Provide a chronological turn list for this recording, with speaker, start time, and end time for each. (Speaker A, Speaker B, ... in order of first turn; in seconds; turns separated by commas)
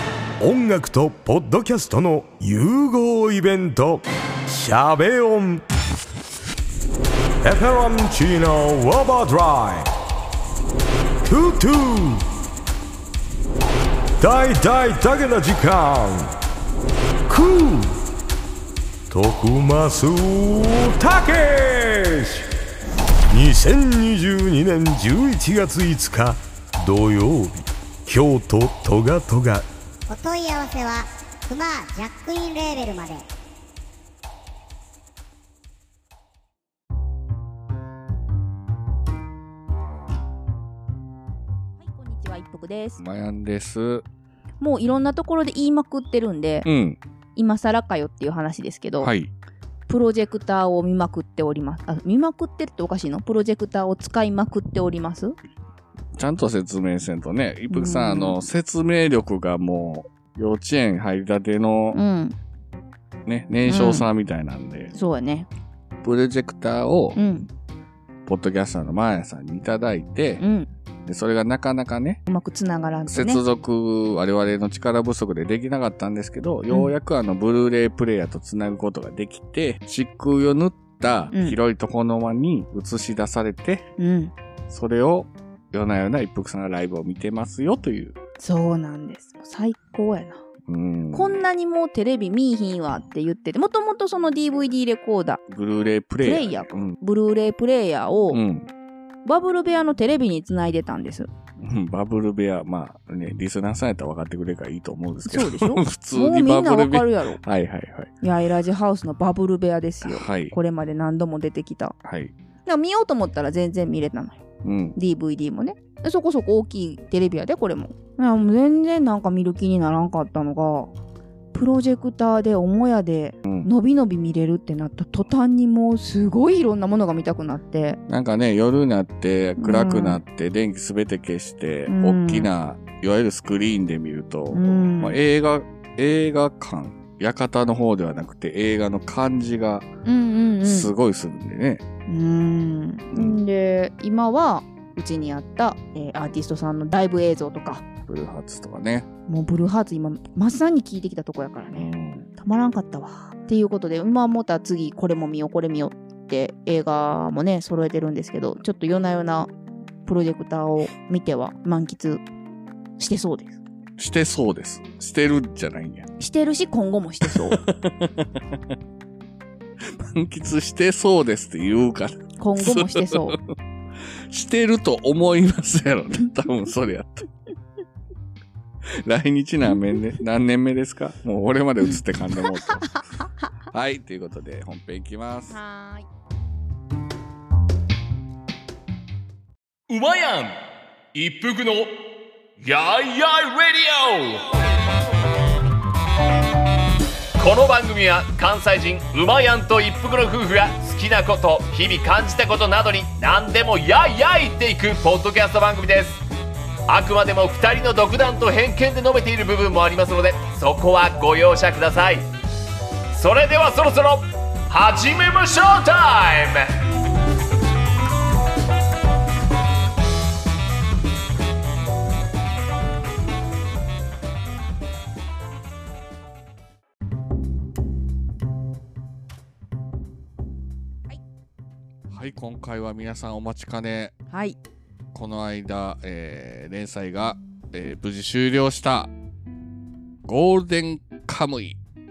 Speaker A: 0.4-5.6, Speaker A: 7.4-9.9, Speaker A: 11.2-12.2, Speaker A: 14.2-16.3, Speaker A: 17.3-18.0, Speaker A: 19.1-22.5, Speaker A: 23.3-29.6, Speaker B: 30.1-33.2, Speaker C: 41.8-43.0, Speaker D: 43.0-44.0, Speaker C: 44.6-46.6, Speaker D: 46.6-47.0, Speaker C: 47.4-49.1, Speaker D: 49.0-49.3, Speaker C: 49.9-55.4, Speaker D: 56.1-62.0, Speaker C: 57.7-58.4, Speaker C: 61.9-62.3, Speaker D: 63.2-64.9, Speaker C: 63.6-64.0, Speaker C: 64.9-65.5, Speaker D: 66.0-67.2, Speaker C: 67.1-67.5, Speaker D: 68.2-70.4, Speaker C: 70.4-70.7, Speaker D: 71.0-72.2, Speaker C: 72.3-73.4, Speaker D: 73.1-83.8, Speaker C: 81.3-81.6, Speaker C: 84.0-84.3, Speaker D: 84.7-88.2, Speaker C: 88.4-90.4, Speaker D: 90.7-91.3, Speaker C: 91.1-95.4, Speaker D: 95.5-97.0, Speaker C: 96.2-98.4, Speaker D: 98.3-98.7, Speaker C: 99.2-101.3, Speaker D: 101.6-108.1, Speaker C: 105.2-107.4, Speaker C: 108.2-111.9, Speaker D: 110.0-110.5, Speaker D: 112.0-112.3, Speaker C: 112.7-114.4, Speaker D: 114.6-115.0, Speaker C: 115.0-120.9, Speaker C: 121.5-128.0, Speaker D: 128.1-139.8, Speaker C: 129.6-130.2, Speaker C: 131.9-132.5, Speaker C: 134.5-135.2, Speaker C: 140.0-140.9, Speaker D: 140.6-141.8, Speaker C: 142.1-147.8, Speaker D: 148.1-149.1, Speaker C: 149.3-159.5, Speaker D: 151.7-152.2, Speaker C: 160.1-162.2, Speaker C: 163.0-163.6, Speaker D: 164.0-166.1, Speaker C: 166.2-167.6, Speaker D: 167.2-168.4, Speaker D: 169.8-173.4, Speaker C: 172.4-173.4, Speaker D: 174.3-177.3, Speaker D: 179.0-183.0, Speaker D: 183.7-185.6, Speaker C: 185.5-186.1, Speaker E: 189.9-190.6, Speaker E: 191.1-192.0, Speaker E: 192.6-194.6, Speaker E: 197.4-206.2, Speaker E: 206.9-212.3, Speaker E: 213.1-216.7, Speaker D: 232.1-234.1, Speaker C: 234.3-234.6, Speaker D: 235.1-239.1, Speaker D: 240.2-241.8